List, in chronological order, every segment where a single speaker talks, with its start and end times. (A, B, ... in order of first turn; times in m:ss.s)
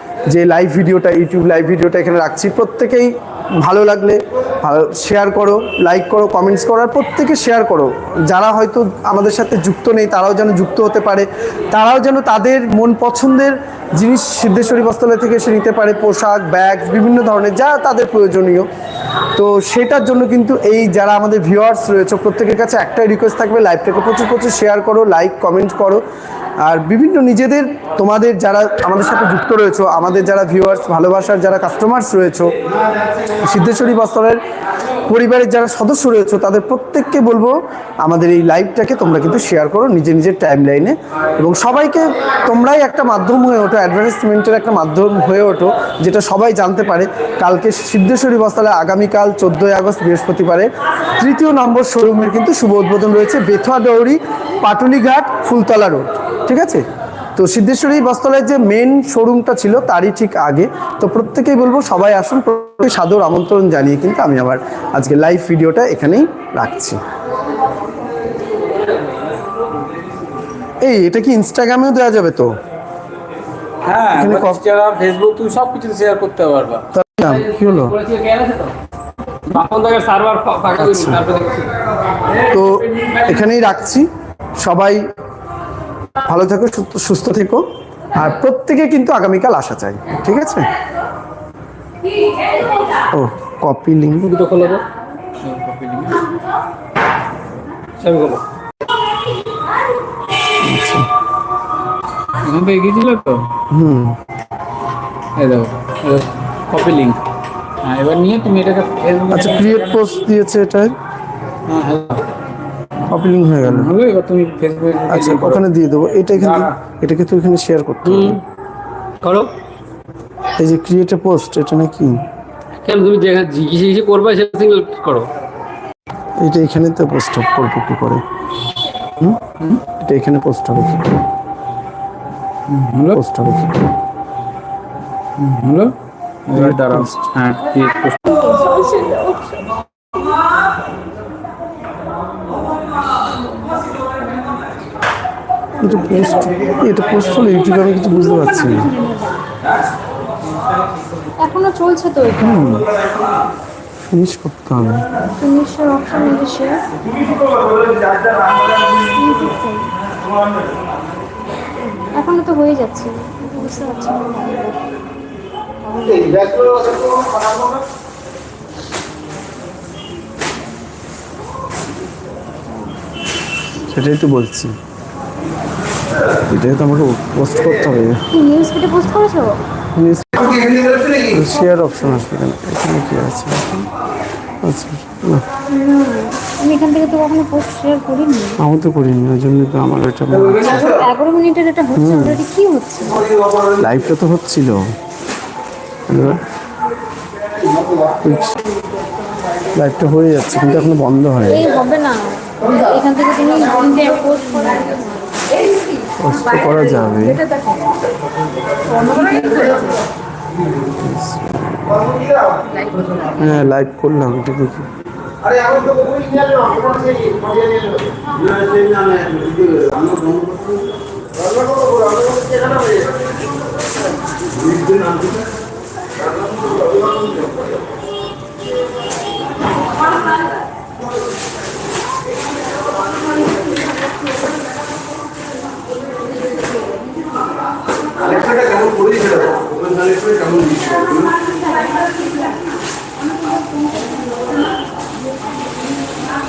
0:00.3-0:18.7 A
0:19.4-0:26.0 A
0:26.6-0:32.5 A
0:33.4-0:34.4 A
0:35.1-0:56.8 A
0:57.4-1:07.0 A
1:10.8-1:12.5 A
1:13.8-1:17.3 B
1:14.1-1:14.6 A
1:16.9-1:18.0 A
1:17.9-1:18.7 B
1:19.4-1:21.7 B
1:20.7-1:21.2 A
1:22.5-1:24.1 A
1:24.6-1:25.0 A
1:26.2-1:27.6 A
1:28.2-1:30.7 A
1:33.1-1:34.3 A
1:34.2-1:34.8 B
1:35.4-1:36.2 B
1:38.0-1:38.4 B
1:40.6-1:41.1 A
1:42.4-1:43.6 B
1:43.7-1:44.2 A
1:45.4-1:47.2 B
1:47.8-1:50.0 B
1:49.3-1:50.9 A
1:51.7-1:52.3 B
1:53.1-1:53.9 A
1:53.6-1:55.7 B
1:55.1-1:58.4 A
1:56.3-1:56.7 B
1:58.0-1:58.4 B
1:59.2-1:59.5 B
2:00.6-2:02.2 A
2:02.8-2:05.3 B
2:06.4-2:08.2 A
2:10.0-2:11.1 A
2:12.7-2:13.2 B
2:13.1-2:13.8 A
2:15.4-2:15.9 B
2:16.5-2:18.4 B
2:16.5-2:17.3 A
2:18.4-2:19.7 C
2:25.8-2:28.9 A
2:28.9-2:29.4 C
2:31.4-2:32.7 C
2:32.4-2:32.9 A
2:34.1-2:35.0 A
2:35.4-2:36.8 C
2:37.5-2:37.8 C
2:38.7-2:39.9 C
2:41.8-2:44.9 C
2:45.9-2:47.4 C
2:53.9-2:54.7 A
2:56.4-2:58.2 A
2:58.3-2:59.6 C
3:00.0-3:03.9 A
3:04.6-3:05.4 A
3:05.7-3:08.6 C
3:08.6-3:10.8 A
3:10.6-3:13.3 C
3:12.0-3:12.4 A
3:13.8-3:14.9 A
3:16.1-3:16.4 A
3:18.2-3:18.6 A
3:19.7-3:21.7 A
3:21.5-3:25.8 C
3:26.2-3:27.4 A
3:27.4-3:27.9 C
3:28.8-3:30.0 C
3:31.0-3:31.8 A
3:33.4-3:34.9 A
3:58.5-3:58.9 C
4:00.5-4:02.5 C
4:03.5-4:04.3 C